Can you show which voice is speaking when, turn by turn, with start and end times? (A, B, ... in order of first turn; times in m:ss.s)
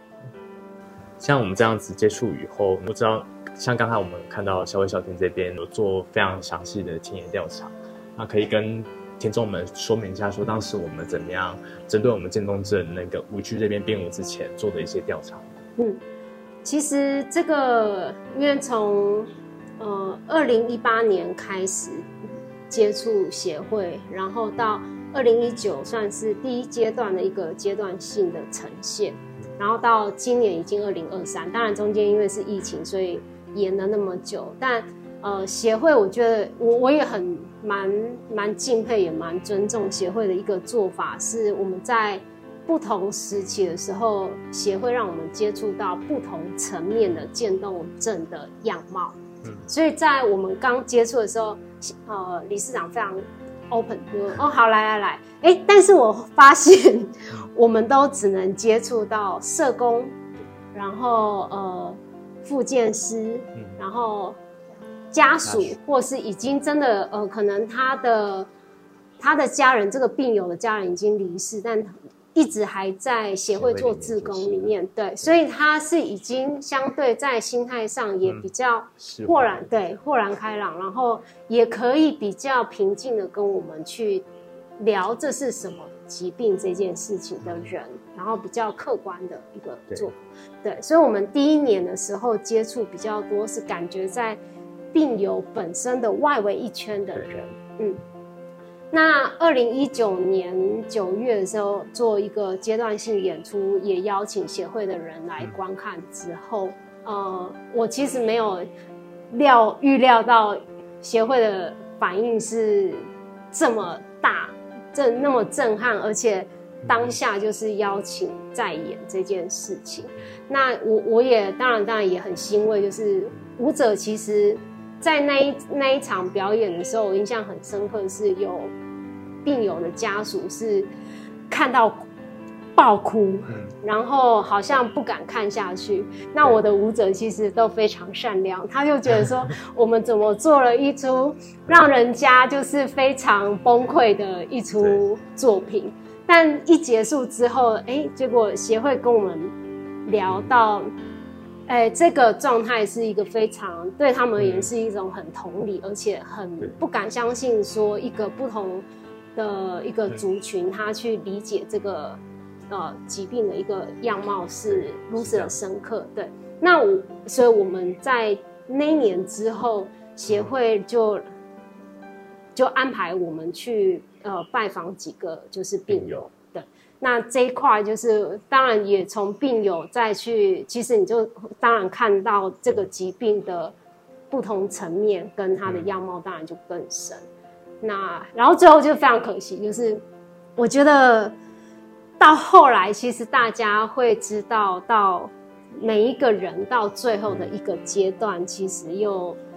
0:01.2-0:15.5 A
0:16.6-0:22.1 B
0:22.7-1:00.2 B
1:00.7-1:04.4 B
1:05.1-1:08.5 B
1:05.4-1:05.7 A
1:09.2-1:24.3 B
1:13.5-1:15.3 A
1:18.2-1:19.9 A
1:24.8-1:34.4 B
1:27.4-1:27.7 A
1:34.9-1:38.0 B
1:38.9-1:48.7 B
1:49.3-2:08.7 B
1:56.8-1:57.2 A
2:09.4-2:10.9 B
2:11.5-2:12.1 B
2:12.8-2:30.9 B
2:13.5-2:13.7 A
2:30.3-2:30.5 A
2:31.7-2:51.2 B
2:34.4-2:34.7 A
2:44.7-2:45.6 A
2:52.6-3:03.8 B
2:55.9-2:56.2 A
3:04.3-3:07.2 B
3:05.6-3:05.9 A
3:07.8-3:10.0 B
3:10.6-3:11.4 B
3:12.2-3:19.4 B